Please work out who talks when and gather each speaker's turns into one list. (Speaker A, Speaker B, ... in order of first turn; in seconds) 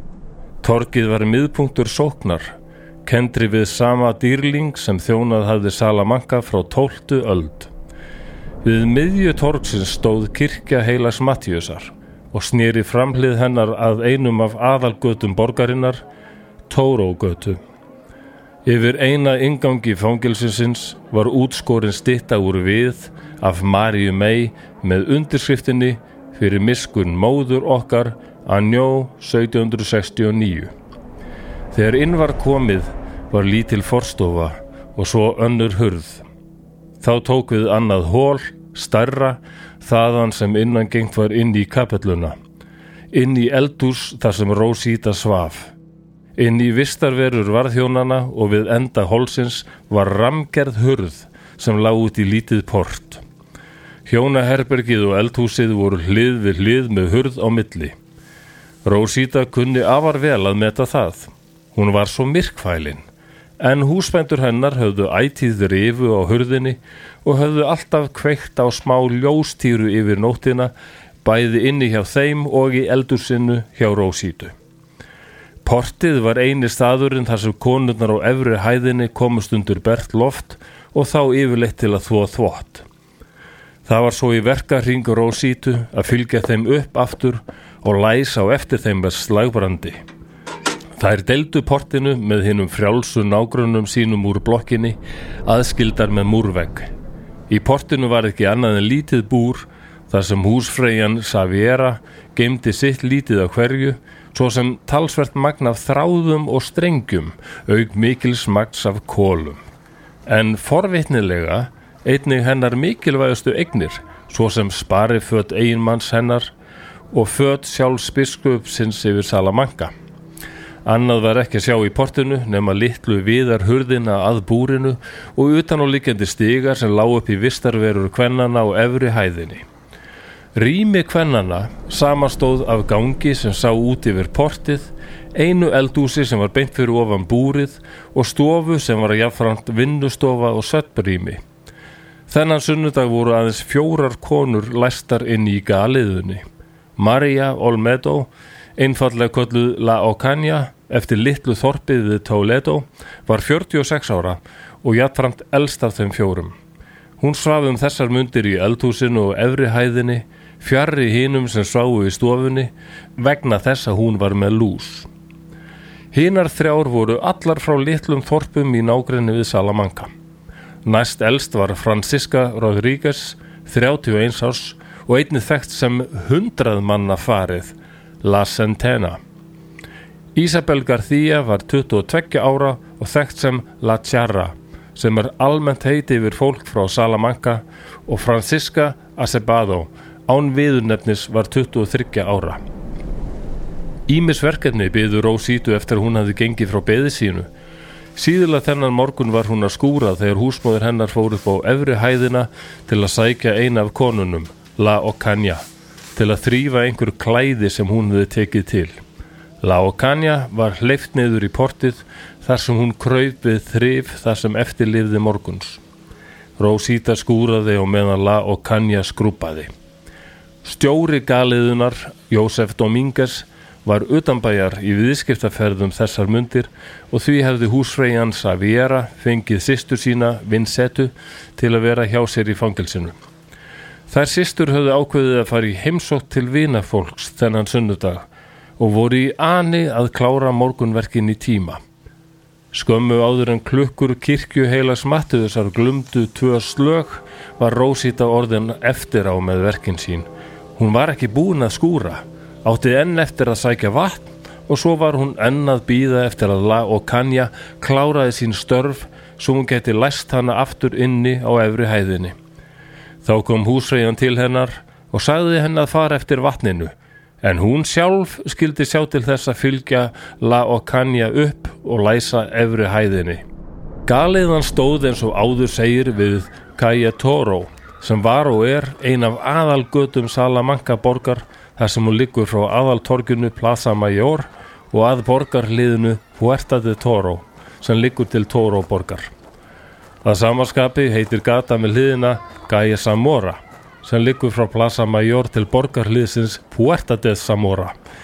Speaker A: 0.6-2.5, 3.1-7.7, 8.6-16.0, 16.7-17.6, 18.7-30.7, 31.7-36.2, 37.0-42.4, 43.1-45.7, 46.4-53.2, 54.1-57.9, 58.9-63.0, 63.6-70.7, 71.2-74.5, 75.7-82.8, 83.9-90.0, 91.0-96.9, 97.5-109.6, 110.3-116.5, 117.1-119.9, 120.8-129.6, 130.6-141.4, 142.3-146.4, 147.0-156.5, 157.2-165.1, 166.1-170.1, 170.8-179.2, 180.3-192.6, 194.1-197.5, 198.2-205.6, 206.2-209.0, 209.6-215.8, 216.6-219.7, 220.6-233.2, 234.1-238.2, 238.8-241.8, 242.7-262.4, 263.2-273.4, 274.1-289.3, 290.2-297.9